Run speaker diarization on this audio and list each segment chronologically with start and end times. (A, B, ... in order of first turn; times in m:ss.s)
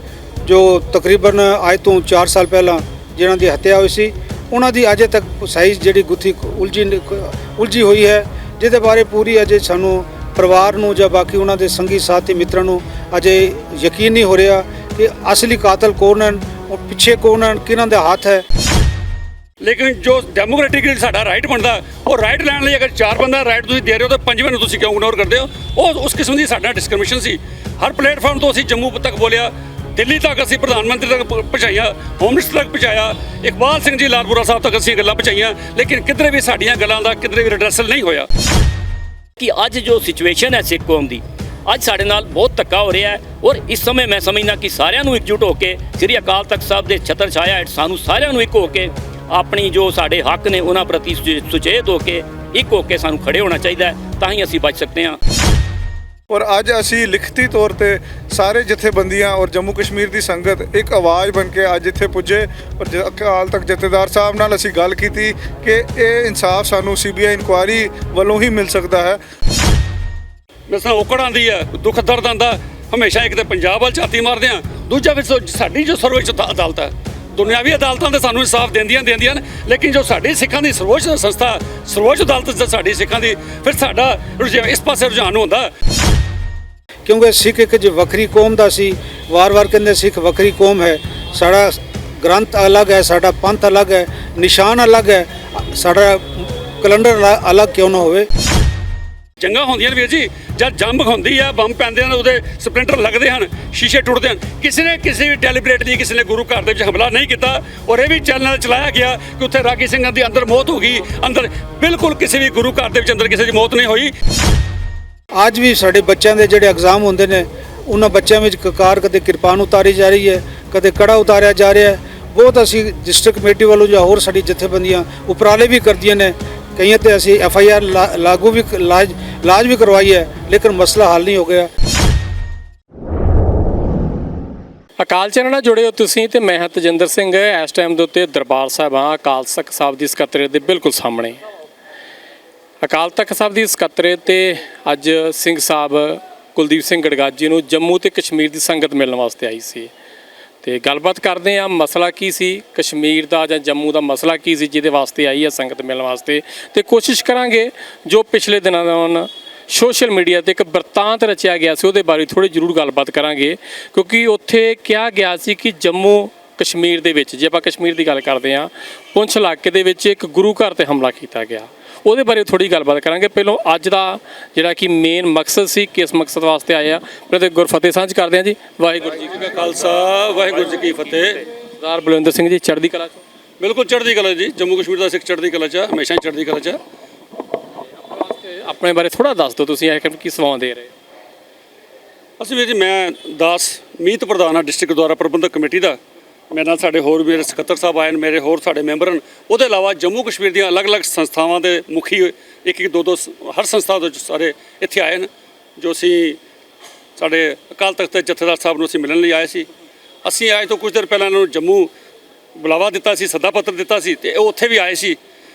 0:00.4-0:18.4 A
0:19.6-0:38.3 B
0:39.4-0:55.2 C
0:56.3-1:09.2 D
1:10.7-1:25.7 B
1:27.0-1:38.3 A
1:39.4-1:54.1 B
1:55.3-2:11.7 A
2:15.0-2:21.4 E
2:22.8-2:29.9 E
2:30.6-2:59.3 E
2:59.3-3:01.4 B
3:01.8-3:03.2 E
3:03.6-3:06.8 B
3:08.0-3:10.9 E
3:12.4-3:16.0 B
3:16.5-3:25.3 B
3:25.8-3:26.4 B
3:27.2-3:29.7 B
3:30.2-3:31.9 B
3:32.6-3:35.2 B